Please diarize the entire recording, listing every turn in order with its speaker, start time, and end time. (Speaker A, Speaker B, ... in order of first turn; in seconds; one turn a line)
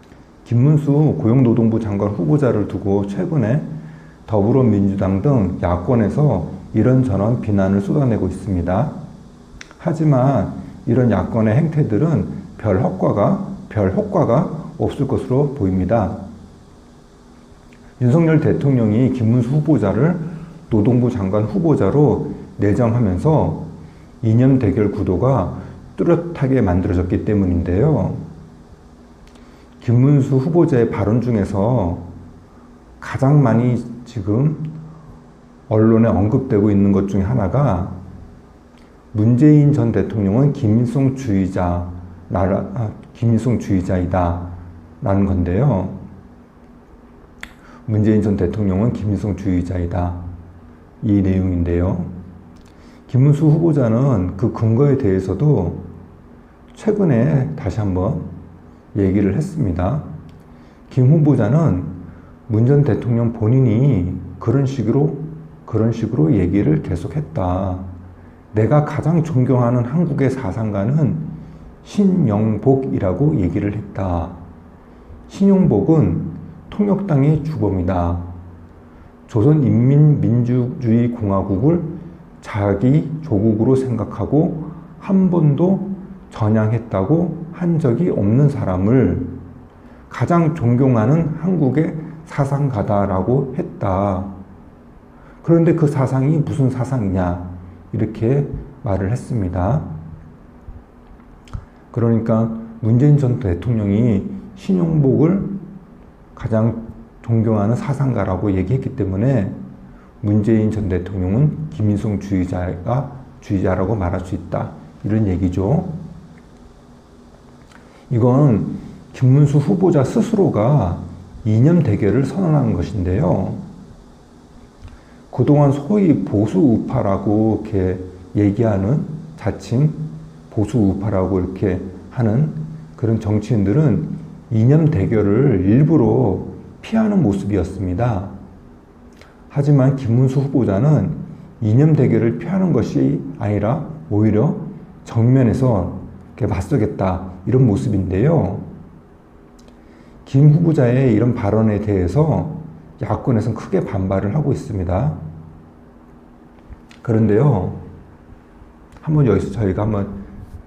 Speaker A: 0.5-3.7
Speaker A: 4.3-9.0
Speaker A: 9.8-16.2
Speaker A: 18.0-28.3
Speaker A: 29.8-32.1
Speaker A: 33.0-34.8
Speaker A: 35.7-38.0
Speaker A: 39.1-46.0
Speaker A: 47.9-50.3
Speaker A: 51.0-52.1
Speaker A: 53.1-55.9
Speaker A: 56.7-58.3
Speaker A: 58.9-60.1
Speaker A: 60.9-67.9
Speaker A: 68.5-74.4
Speaker A: 75.3-78.3
Speaker A: 79.3-89.4
Speaker A: 90.1-94.3
Speaker A: 95.4-99.9
Speaker A: 101.9-105.6
Speaker A: 106.3-109.6
Speaker A: 110.2-116.0
Speaker A: 118.1-123.6
Speaker A: 125.3-138.4
Speaker A: 139.5-148.7
Speaker A: 150.2-155.2
Speaker A: 157.0-157.8
Speaker A: 159.0-160.2